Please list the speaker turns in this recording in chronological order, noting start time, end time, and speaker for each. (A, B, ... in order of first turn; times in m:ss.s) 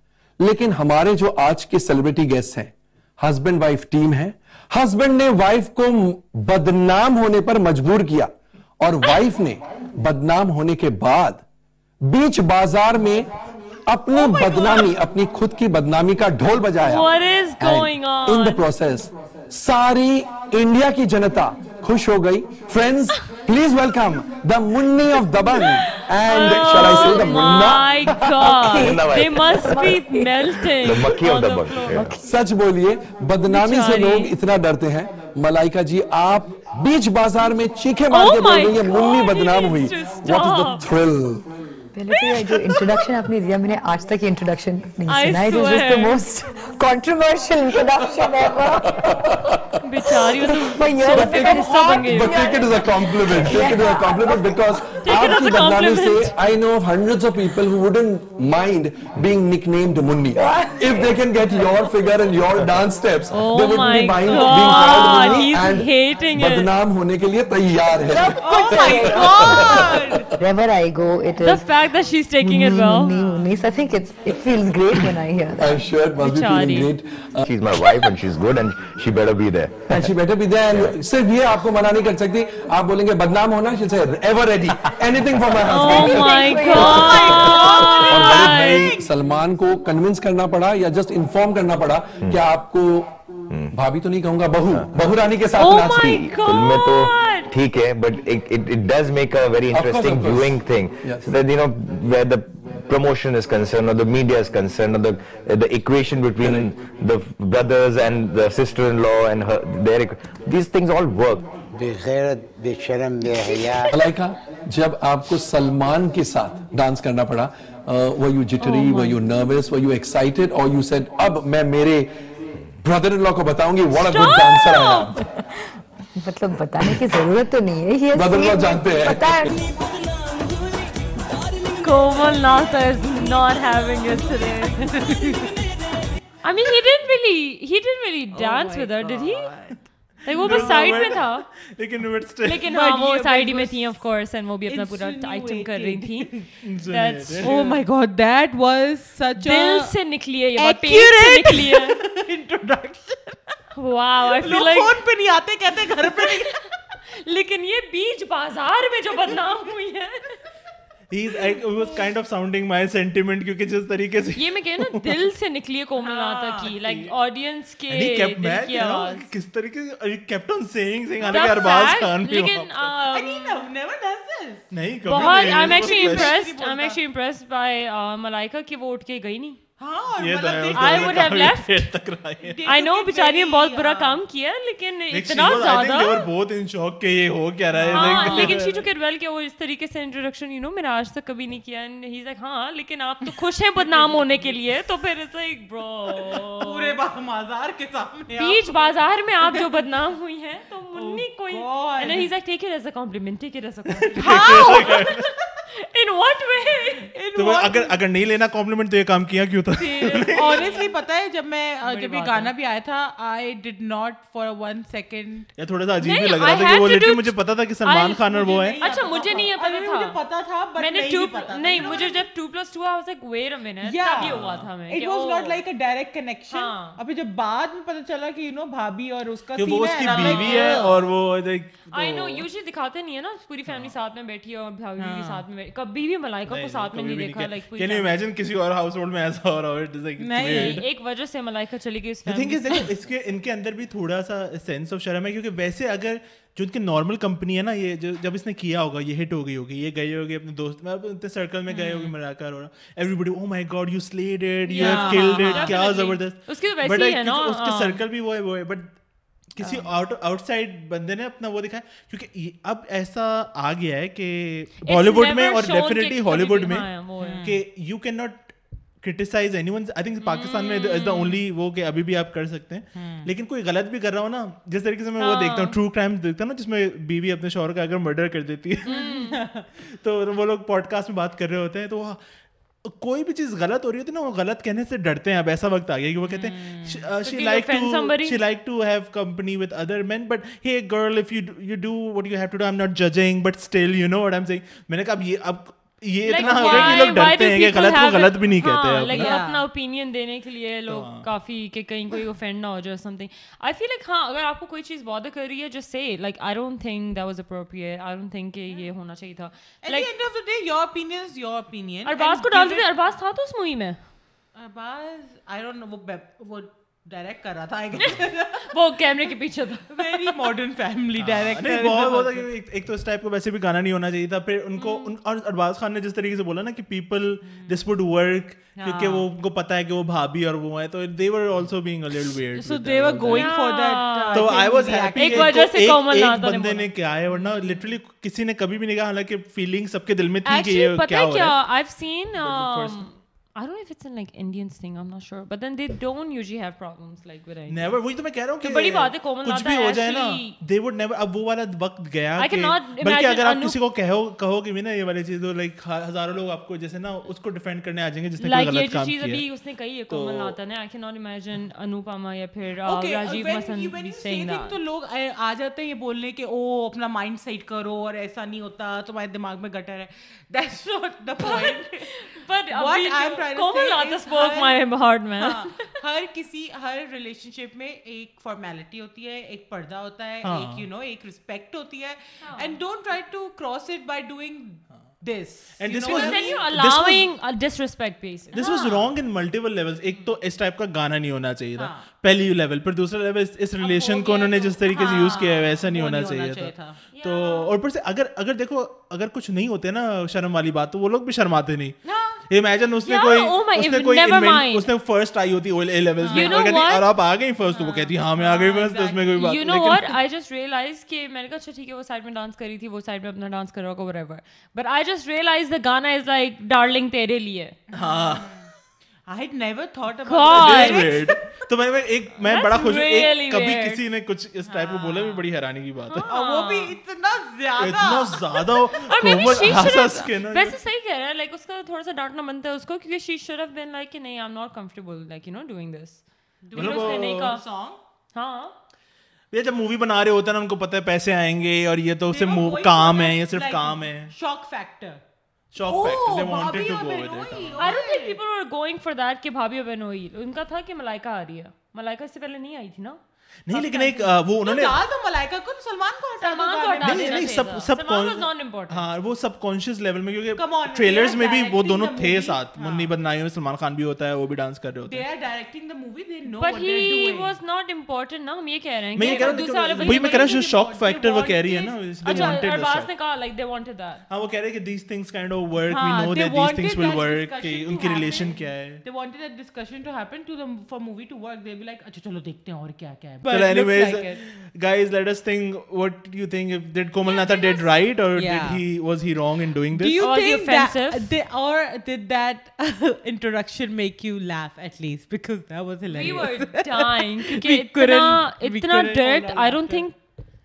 0:00.4-0:11.4 A
0:12.0-0:13.3 A
0:13.9-0:17.1 A
0:14.1-0:14.8 B
0:16.8-0:18.7 C
0:17.6-0:28.9 A
0:25.6-0:32.1 C
0:26.4-0:27.4 D
0:28.6-0:29.0 E
0:28.8-0:30.0 D
0:30.8-0:32.1 D
0:32.0-0:32.2 E
0:32.2-0:41.4 A
0:33.5-0:34.3 C
0:38.1-0:40.8 C
0:41.9-0:49.3 E
0:42.1-0:42.8 C
0:45.1-0:46.2 C
0:49.8-0:52.5 C
0:50.3-0:54.6 E
0:51.0-1:10.0 A
0:55.0-0:56.3 C
1:00.4-1:01.1 E
1:03.3-1:06.7 C
1:04.4-1:05.5 B
1:08.1-1:10.3 B
1:08.4-1:09.7 E
1:10.4-1:11.6 E
1:11.4-1:13.2 C
1:12.4-1:15.9 E
1:13.1-1:13.4 B
1:15.6-1:17.4 A
1:16.2-1:16.9 C
1:17.4-1:20.1 D
1:19.9-1:33.1 A
1:20.7-1:20.9 D
1:25.7-1:28.9 C
1:25.7-1:27.3 E
1:26.7-1:29.1 B
1:26.8-1:28.0 D
1:33.5-1:33.7 D
1:33.7-1:36.2 A
1:35.6-1:37.5 C
1:35.8-1:51.5 D
1:39.7-1:41.3 A
1:51.7-1:53.9 F
1:53.9-2:02.1 A
1:58.6-1:59.2 C
2:02.8-2:05.2 A
2:03.9-2:05.1 C
2:06.2-2:09.6 E
2:08.1-2:09.3 A
2:11.7-2:15.1 C
2:14.8-2:15.7 B
2:16.4-2:19.5 C
2:18.3-2:19.8 B
2:20.2-2:21.4 C
2:20.4-2:22.6 G
2:20.4-2:20.8 B
2:22.4-2:26.3 C
2:22.7-2:23.9 B
2:24.6-2:26.5 B
2:26.6-2:27.8 G
2:26.9-2:27.6 C
2:27.4-2:29.9 B
2:29.4-2:32.0 C
2:30.5-2:33.5 B
2:33.7-2:35.0 C
2:34.3-2:36.6 B
2:36.1-2:36.5 C
2:37.1-2:40.4 C
2:41.1-2:44.9 G
2:44.4-2:49.3 C
2:46.0-2:46.7 B
2:46.8-2:47.1 G
2:47.9-2:52.9 G
2:51.2-2:53.7 C
2:53.1-2:57.0 B
2:54.7-2:56.4 G
2:55.0-2:59.6 C
2:59.8-3:01.4 B
3:00.2-3:02.6 G
3:00.7-3:01.8 C
3:02.4-3:04.2 B
3:02.6-3:06.3 C
3:05.1-3:08.8 G
3:07.7-3:08.6 B
3:07.9-3:17.0 C
3:14.0-3:14.5 B
3:16.1-3:19.6 B
3:18.4-3:25.0 C
3:20.9-3:22.3 B
3:24.0-3:25.2 G
3:24.1-3:25.1 B
3:25.7-3:27.2 C
3:27.2-3:28.0 B
3:27.4-3:30.7 G
3:29.8-3:30.9 C
3:30.0-3:35.5 B
3:31.8-3:32.5 C
3:35.6-3:38.8 G
3:36.0-3:40.2 C
3:38.3-3:42.2 B
3:40.8-3:45.6 C
3:43.8-3:51.0 B
3:44.2-3:44.6 G
3:46.5-3:47.0 C
3:49.6-3:52.4 G
3:50.1-3:51.0 C
3:51.9-3:58.2 C
3:53.7-3:53.9 G
3:55.0-3:55.4 B
3:56.5-4:00.8 G
4:00.2-4:00.8 B
4:00.4-4:02.9 C
4:02.2-4:18.9 G
4:11.7-4:12.1 C
4:14.7-4:18.0 C
4:14.7-4:15.8 B
4:19.5-4:26.9 G
4:19.6-4:19.9 B
4:24.8-4:27.4 C
4:27.2-4:27.6 B
4:27.4-4:38.9 G
4:30.2-4:31.4 C
4:32.9-4:33.3 B
4:35.2-4:35.8 C
4:38.8-4:39.4 C
4:38.8-4:39.7 B
4:40.0-4:42.2 G
4:42.8-4:59.4 G
4:46.2-4:47.0 B
4:47.2-4:48.4 C
4:56.2-5:10.1 C
4:56.4-4:57.1 B
4:59.1-4:59.6 B
5:00.9-5:01.3 G
5:09.8-5:12.9 B
5:12.0-5:14.0 C
5:14.5-5:19.3 B
5:18.0-5:20.5 C
5:19.9-5:22.5 B
5:21.2-5:33.5 G
5:24.8-5:25.1 C
5:27.4-5:27.8 B
5:28.8-5:29.3 C
5:32.5-5:35.7 B
5:33.3-5:37.8 C
5:34.3-5:41.6 G
5:40.4-5:48.0 C
5:42.4-5:43.1 G
5:47.7-5:59.4 G
5:48.6-5:50.6 C
5:52.4-5:53.8 C
5:58.4-6:04.8 C
6:00.1-6:00.6 G
6:02.8-6:26.6 B
6:11.4-6:15.9 C
6:20.4-6:20.9 G
6:22.4-6:22.8 C
6:25.8-6:27.3 G
6:26.1-6:28.7 C
6:28.5-6:42.0 G
6:28.6-6:29.1 B
6:31.8-6:32.1 B
6:33.8-6:37.0 B
6:34.9-6:35.2 C
6:37.1-6:37.8 C
6:42.0-6:42.4 B
6:42.5-6:50.1 G
6:43.0-6:44.9 C
6:46.2-6:46.7 B
6:46.3-6:47.1 C
6:47.7-6:48.1 C
6:48.3-6:49.5 B
6:49.4-6:57.8 C
6:57.9-6:58.7 B
6:57.9-6:58.5 G
6:59.3-7:01.6 B
7:00.2-7:01.2 C
7:00.5-7:06.3 G
7:02.4-7:04.0 C
7:04.6-7:05.4 B
7:06.1-7:06.9 C
7:06.3-7:08.6 B
7:07.8-7:10.8 G
7:08.9-7:17.6 C
7:16.7-7:18.0 B
7:16.7-7:17.5 G
7:18.3-7:18.8 C
7:19.5-7:24.3 G
7:22.3-7:25.2 B
7:25.7-7:27.9 G
7:25.8-7:28.4 B
7:27.8-7:33.2 C
7:33.6-7:35.0 G
7:33.7-7:37.7 B
7:36.4-7:39.1 C
7:37.0-7:45.2 G
7:40.6-7:43.1 B
7:45.1-7:47.5 B
7:46.6-7:50.6 C
7:49.1-7:53.1 G
7:49.2-7:52.6 B
7:52.0-7:54.2 C
7:54.3-7:59.0 G
7:55.9-8:04.4 B
7:57.9-7:58.5 C
8:03.4-8:10.3 G
8:07.2-8:07.8 C
8:08.3-8:08.8 B
8:09.9-8:20.1 B
8:10.2-8:11.3 C
8:16.1-8:20.2 C